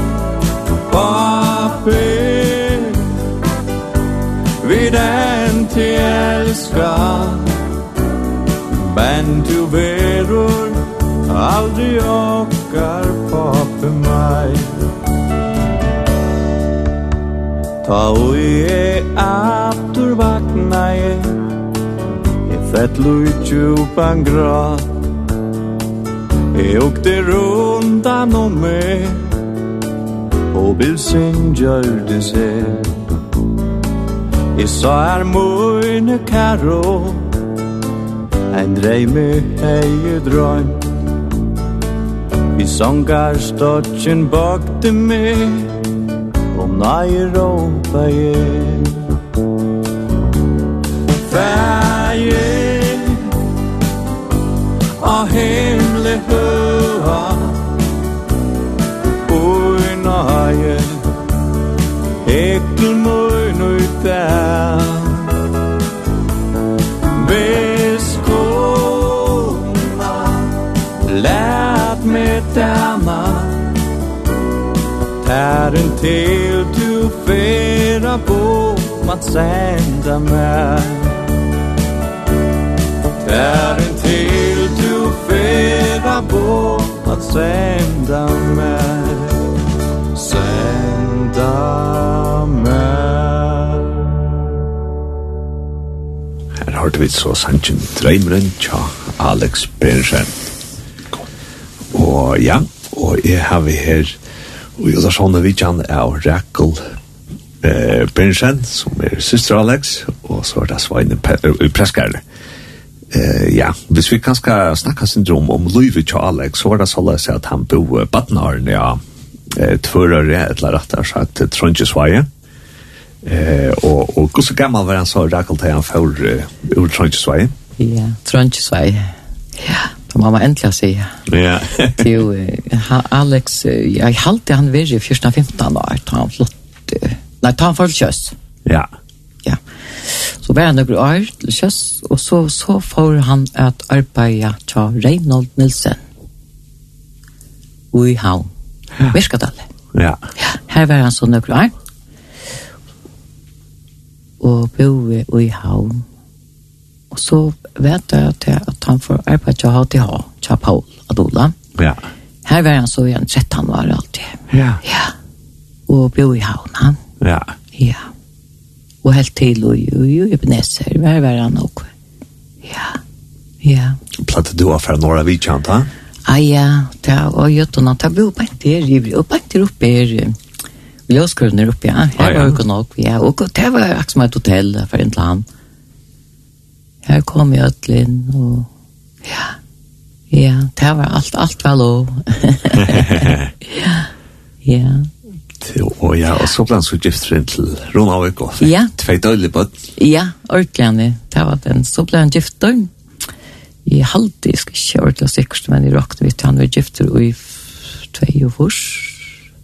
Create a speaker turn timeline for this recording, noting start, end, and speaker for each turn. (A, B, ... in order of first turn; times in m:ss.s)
0:00.9-0:03.0 A
0:04.6-0:07.5 A
0:08.7-0:14.7 A
0:17.8-0:21.5 A
0:22.4-0:24.9 A
0:26.5-0:29.4 A
0:30.5-0:33.0 A
0:34.5-0:37.3 A
0:38.5-0:40.9 A
0:42.6-0:45.8 A
0:46.5-0:49.1 A
0:51.2-0:53.3 A
0:55.0-0:57.6 A
0:59.3-1:01.0 A
1:02.2-1:05.4 A
1:07.1-1:13.7 A
1:15.2-1:21.3 A
1:23.2-1:29.5 A
1:30.1-1:34.0 A
1:36.6-1:40.3 B
1:41.9-1:44.2 B
1:44.8-1:46.8 B
1:47.6-1:52.2 B
1:53.1-1:59.0 B
1:59.5-2:02.3 B
2:03.2-2:07.6 B
2:07.8-2:09.1 C
2:09.7-2:11.2 C
2:11.3-2:12.1 B
2:12.0-2:18.4 C
2:19.4-2:26.0 C
2:27.9-2:28.5 C
2:29.1-2:29.6 C
2:29.9-2:30.2 B
2:30.4-2:31.7 C
2:34.4-2:36.0 C
2:37.1-2:41.6 C
2:41.8-2:42.1 B
2:42.4-2:45.1 C
2:44.5-2:44.8 B
2:45.9-2:47.0 C
2:47.2-2:47.6 B
2:47.8-2:48.1 C
2:49.0-2:51.9 C
2:52.6-2:53.0 C
2:53.6-2:54.0 C
2:54.2-2:55.9 B
2:56.3-3:00.4 C
3:01.1-3:05.4 C
3:02.2-3:02.6 B
3:07.0-3:08.7 C
3:10.3-3:14.1 C
3:12.8-3:13.5 B
3:14.6-3:15.1 C
3:15.6-3:19.8 B
3:18.6-3:18.9 C
3:20.0-3:22.9 C
3:23.8-3:29.3 C